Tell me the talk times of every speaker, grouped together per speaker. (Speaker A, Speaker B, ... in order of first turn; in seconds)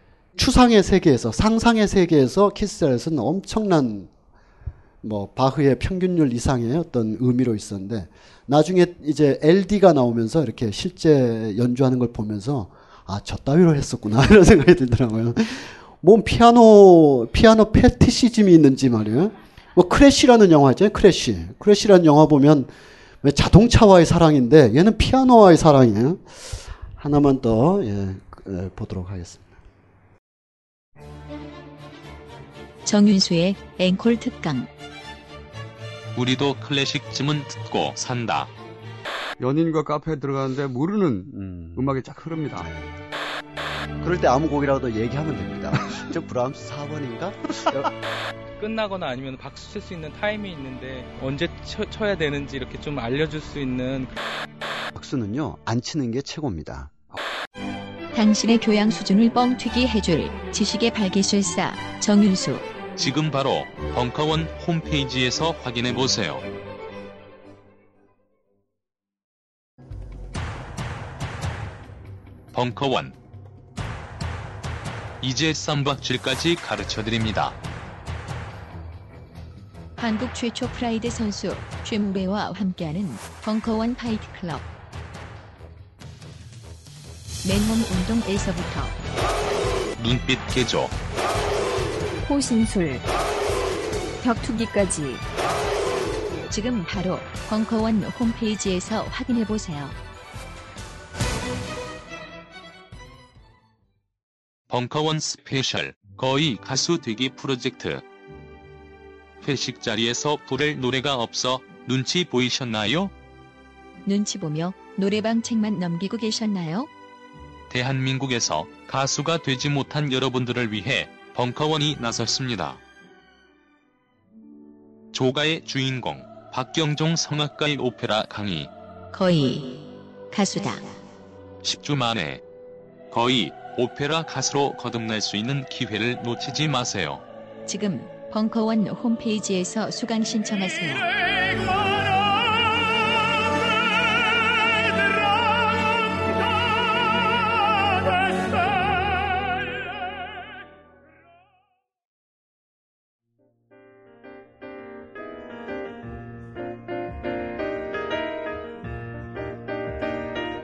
Speaker A: 0.3-4.1, 5.0-22.7, 23.2-29.5, 41.3-41.9, 42.5-42.9, 44.0-47.8, 54.9-57.1
Speaker B: 32.9-34.7, 58.1-62.7, 80.0-84.6, 87.4-88.9, 92.2-93.0, 94.2-95.2, 96.5-99.9, 114.0-116.9, 129.1-130.9, 137.7-141.1
Speaker C: 36.1-38.5, 63.0-66.4, 72.5-73.1, 75.2-77.6, 90.0-90.9, 104.7-108.0, 109.4-113.1, 117.7-122.8, 125.1-128.7, 131.6-132.4, 133.1-137.2
Speaker D: 39.4-42.7
Speaker E: 48.6-54.1